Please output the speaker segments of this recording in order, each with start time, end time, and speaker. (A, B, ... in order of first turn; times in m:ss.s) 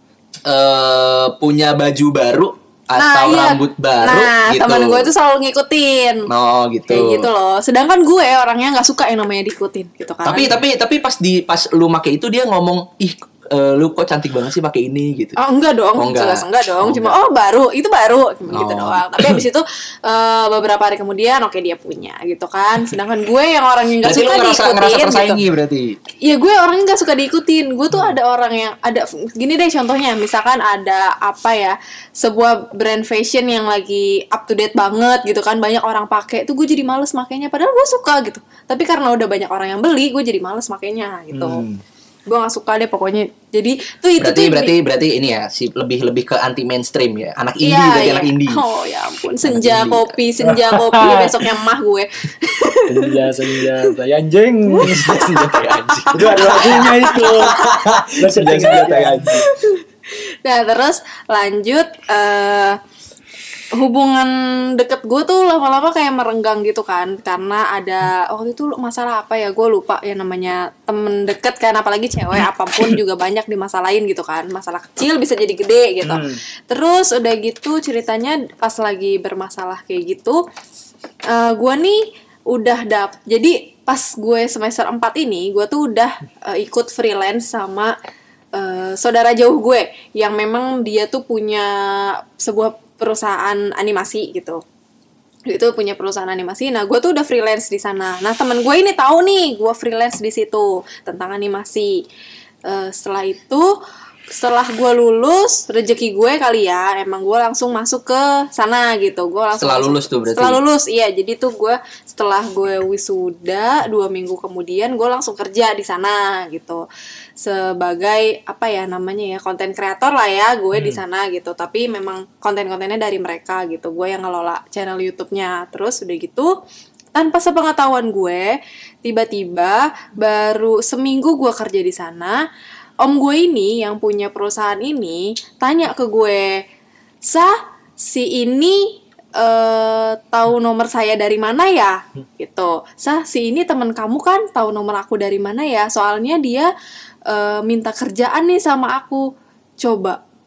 0:00.5-0:05.1 A
0:03.0-0:06.3 B
0:06.3-0:07.3 A
0:06.9-0:10.5 B
0:10.2-0:15.4 A
0:15.4-0:25.4 B
0:16.0-0:17.2 A
0:18.5-0:19.0 A
0:24.0-0:26.0 A
0:26.2-0:41.6 B
0:41.3-0:41.8 C
0:42.3-0:44.7 B
0:44.2-0:48.6 A
0:47.6-0:53.9 B
0:49.4-0:50.1 A
0:50.4-0:51.4 C
0:52.9-0:55.3 C
0:54.7-0:57.8 B
0:54.8-0:59.5 A
0:56.1-0:59.4 C
0:59.3-0:59.8 B
1:00.4-1:02.8 B
1:03.7-1:20.4 B
1:16.0-1:16.4 C
1:21.3-1:27.9 B
1:28.5-1:34.6 B
1:35.5-1:42.0 B
1:42.6-1:43.8 B
1:44.3-1:56.8 B
1:49.6-1:50.6 A
1:57.4-2:06.5 B
2:00.7-2:01.0 C
2:07.1-2:08.5 B
2:09.0-2:12.4 B
2:13.0-2:16.6 B
2:17.2-2:26.7 B
2:27.3-2:30.2 B